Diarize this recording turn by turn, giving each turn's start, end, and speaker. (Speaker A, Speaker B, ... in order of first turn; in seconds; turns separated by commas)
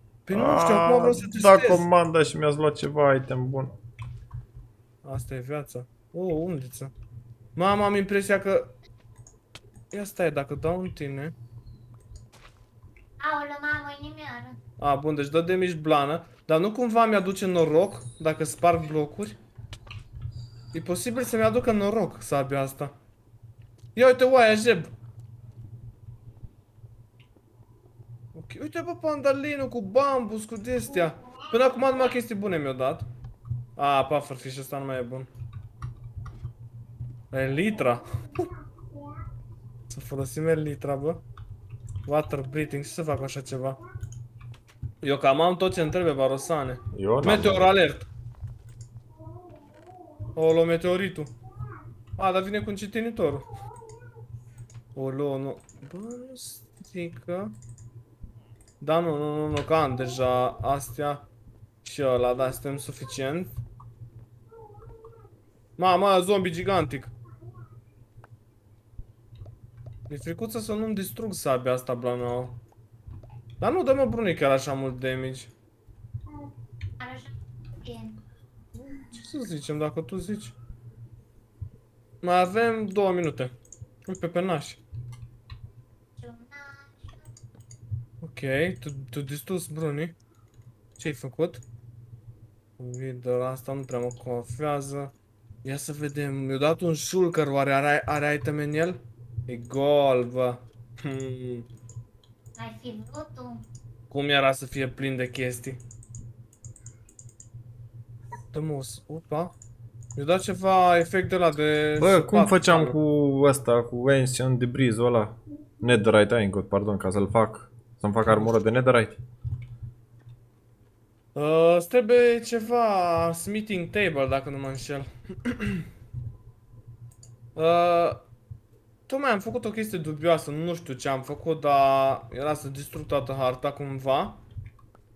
Speaker A: 0.2-1.9, Speaker B: 0.3-3.8, Speaker A: 5.0-6.9, Speaker A: 7.5-8.7, Speaker A: 9.9-11.3, Speaker C: 13.2-14.6, Speaker A: 14.8-19.4, Speaker A: 20.7-22.9, Speaker A: 23.9-24.9, Speaker A: 28.3-33.1, Speaker A: 33.8-35.3, Speaker A: 37.3-38.4, Speaker A: 39.9-41.2, Speaker A: 42.1-43.8, Speaker A: 45.0-48.1, Speaker B: 46.9-47.8, Speaker A: 50.4-51.3, Speaker A: 52.2-53.5, Speaker A: 54.9-57.5, Speaker A: 58.8-61.3, Speaker A: 61.8-63.6, Speaker A: 65.8-67.1, Speaker A: 70.1-72.6, Speaker A: 73.6-75.5, Speaker C: 77.0-78.2, Speaker A: 78.8-80.5, Speaker A: 82.2-83.5, Speaker A: 84.1-84.8, Speaker C: 86.2-87.2, Speaker A: 88.2-90.1, Speaker A: 91.0-91.6, Speaker A: 92.8-95.1, Speaker A: 95.6-101.7, Speaker C: 102.6-103.6, Speaker A: 104.1-105.8, Speaker A: 108.5-109.5, Speaker A: 110.2-113.0, Speaker B: 112.0-119.2, Speaker A: 118.2-118.5, Speaker A: 121.3-125.9, Speaker A: 127.6-128.2, Speaker A: 129.1-134.4